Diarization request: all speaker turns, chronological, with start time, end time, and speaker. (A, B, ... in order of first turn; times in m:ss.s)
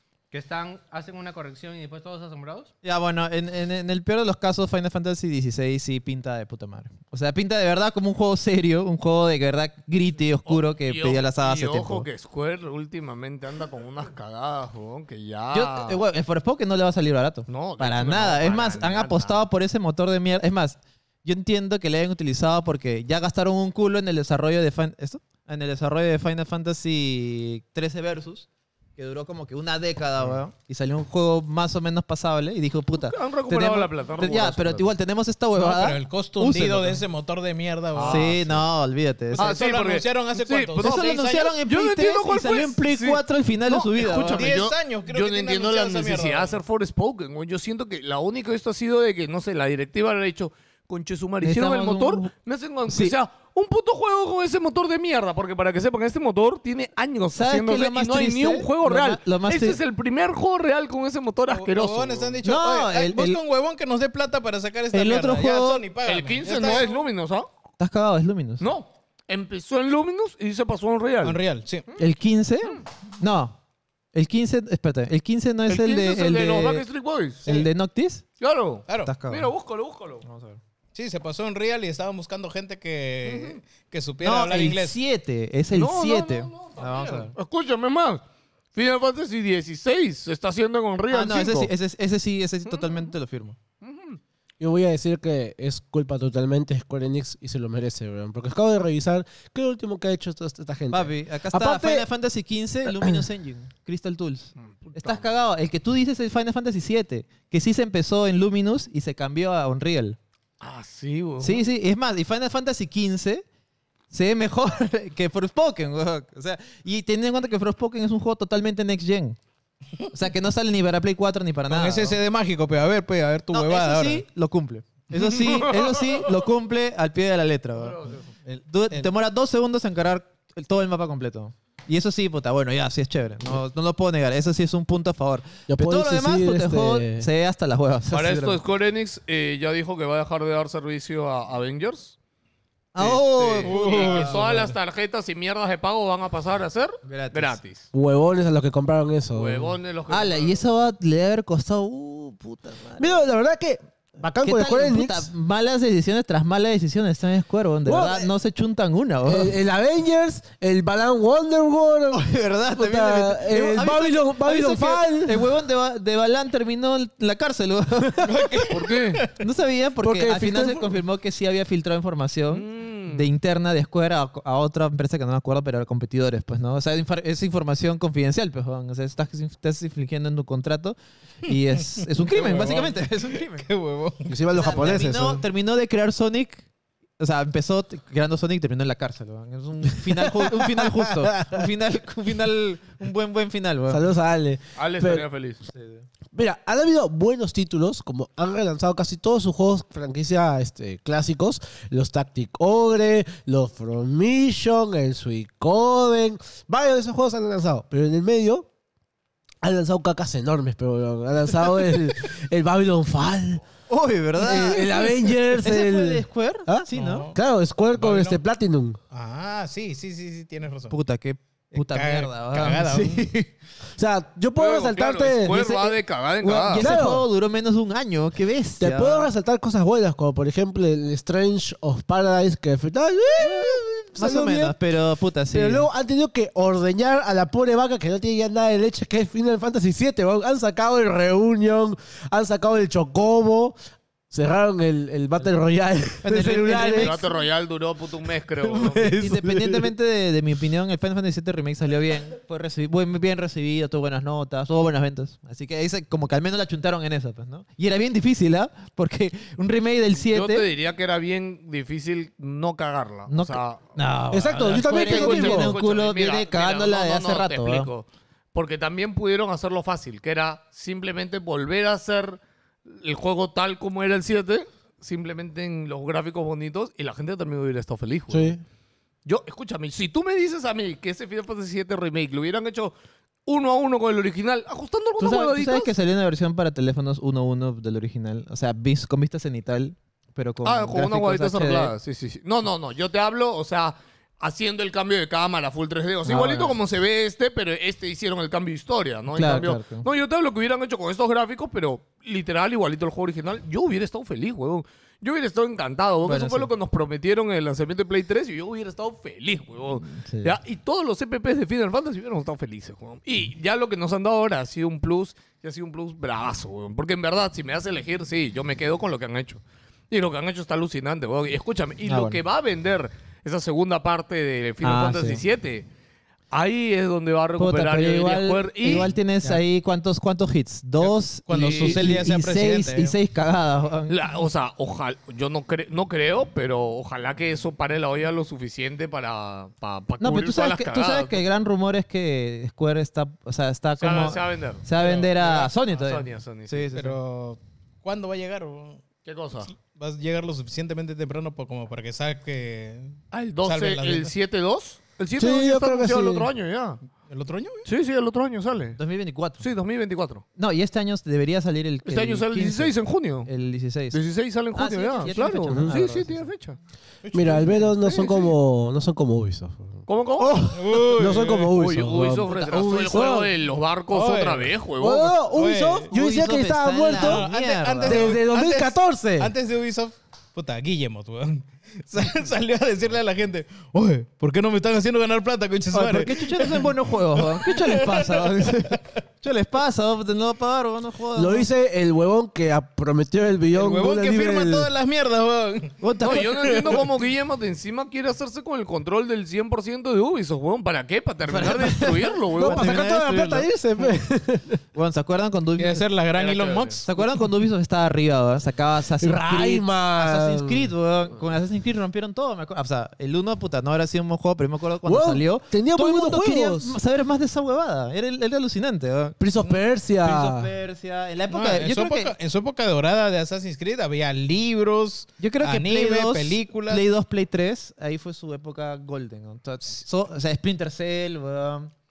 0:00.3-0:02.7 A
0:02.8-0:12.1 B
0:10.4-0:16.0 C
0:15.5-0:37.0 B
0:17.5-0:19.4 C
0:33.0-0:34.9 C
0:35.6-0:38.4 D
0:37.9-0:38.6 C
0:38.0-0:39.5 B
0:39.3-0:41.6 D
0:39.4-1:02.4 C
0:40.8-0:44.5 B
0:44.0-0:46.5 D
0:51.4-0:52.3 B
0:52.9-0:53.2 B
0:57.3-0:59.8 B
1:01.5-1:06.9 D
1:02.4-1:03.4 B
1:04.9-1:05.8 B
1:06.0-1:07.5 C
1:07.8-1:08.6 B
1:08.6-1:11.4 C
1:11.2-1:11.8 D
1:12.0-1:13.6 B
1:14.1-1:16.8 B
1:15.7-1:17.6 C
1:17.4-1:18.2 B
1:18.4-1:20.2 C
1:18.9-1:19.1 D
1:19.0-1:19.5 B
1:20.2-1:20.6 B
1:20.9-1:25.0 D
1:23.2-1:23.6 C
1:24.2-1:27.3 B
1:25.7-1:28.2 C
1:28.7-1:31.7 C
1:31.1-1:33.6 B
1:33.8-1:34.2 C
1:34.6-1:42.0 E
1:40.9-1:50.2 B
1:44.6-1:45.3 C
1:50.6-1:51.6 C
1:51.4-1:53.4 B
1:54.1-1:59.4 B
2:00.1-2:02.2 B
2:01.7-2:04.2 D
2:03.5-2:08.0 B
2:05.2-2:06.3 C
2:07.8-2:08.3 C
2:08.4-2:09.1 D
2:08.7-2:18.6 B
2:15.7-2:17.2 E
2:18.1-2:22.1 C
2:22.9-2:24.3 B
2:23.0-2:27.8 C
2:23.6-2:24.7 D
2:27.0-2:27.6 B
2:27.9-2:29.8 E
2:29.3-2:30.6 C
2:30.1-2:33.2 B
2:33.0-2:35.3 E
2:34.4-2:39.5 B
2:37.8-2:38.3 E
2:39.2-2:42.2 E
2:42.1-2:48.3 B
2:42.7-2:45.5 E
2:48.2-2:49.3 D
2:48.7-2:49.2 C
2:49.4-3:03.6 B
2:50.0-2:50.9 E
2:52.5-2:53.3 C
3:02.0-3:04.3 D
3:04.3-3:05.4 E
3:04.5-3:06.6 B
3:07.2-3:14.0 B
3:10.2-3:11.6 E
3:13.9-3:15.2 E
3:14.8-3:15.6 C
3:15.7-3:16.0 B
3:16.3-3:28.7 E
3:29.6-3:33.6 E
3:33.9-3:37.3 B
3:34.4-3:39.0 E
3:36.9-3:37.4 D
3:37.9-3:38.4 D
3:39.1-3:41.0 D
3:40.9-3:43.4 B
3:41.8-3:43.3 D
3:44.0-3:46.0 E
3:44.6-3:47.0 C
3:46.4-3:49.3 B
3:46.8-3:47.2 E
3:48.8-3:54.7 E
3:53.4-3:55.9 B
3:55.5-4:03.7 E
4:04.3-4:07.3 E
4:06.2-4:07.2 B
4:06.7-4:09.1 C
4:08.6-4:09.8 E
4:09.1-4:20.7 B
4:20.3-4:23.8 C
4:23.3-4:27.9 B
4:24.3-4:25.7 E
4:24.8-4:38.6 C
4:38.3-4:38.6 E
4:39.2-4:42.9 C
4:43.4-4:45.9 C
4:45.2-4:51.9 B
4:50.6-5:25.9 C
4:56.2-4:56.8 B
4:59.3-5:00.0 B
5:06.2-5:06.7 B
5:10.0-5:10.5 B
5:22.0-5:22.4 B
5:24.8-5:25.4 B
5:26.5-5:29.1 C
5:27.6-5:34.2 B
5:31.0-5:33.2 D
5:31.5-5:32.2 C
5:34.1-5:41.4 C
5:40.2-5:47.2 B
5:44.0-5:44.8 C
5:45.0-5:45.7 D
5:45.9-5:46.9 C
5:46.9-5:49.0 D
5:49.2-5:49.7 C
5:49.6-5:54.3 D
5:53.3-5:57.0 C
5:55.4-5:56.5 E
5:57.3-5:57.9 D
5:57.8-5:59.0 C
5:59.0-5:59.6 B
5:59.6-6:00.4 C
6:00.6-6:04.2 B
6:02.0-6:03.5 C
6:04.1-6:06.8 C
6:04.7-6:06.4 B
6:05.7-6:06.0 E
6:07.2-6:08.5 D
6:07.3-6:13.5 E
6:10.1-6:10.6 C
6:10.7-6:11.7 D
6:11.7-6:15.4 C
6:14.1-6:14.7 D
6:15.0-6:17.5 E
6:15.5-6:16.1 D
6:16.1-6:18.4 B
6:17.1-6:29.0 D
6:18.0-6:19.5 E
6:25.9-6:31.7 B
6:31.4-6:34.9 E
6:33.7-6:35.9 D
6:36.0-6:36.8 B
6:36.2-6:43.0 C
6:36.6-6:36.9 D
6:41.5-6:43.7 B
6:42.6-6:44.8 E
6:44.9-6:46.0 B
6:45.8-6:47.1 D
6:46.3-6:47.0 C
6:47.1-6:59.4 B
6:49.2-6:50.9 E
6:55.0-6:56.9 E
6:59.4-7:00.7 E
7:00.2-7:02.3 B
7:01.5-7:07.0 D
7:05.4-7:11.9 B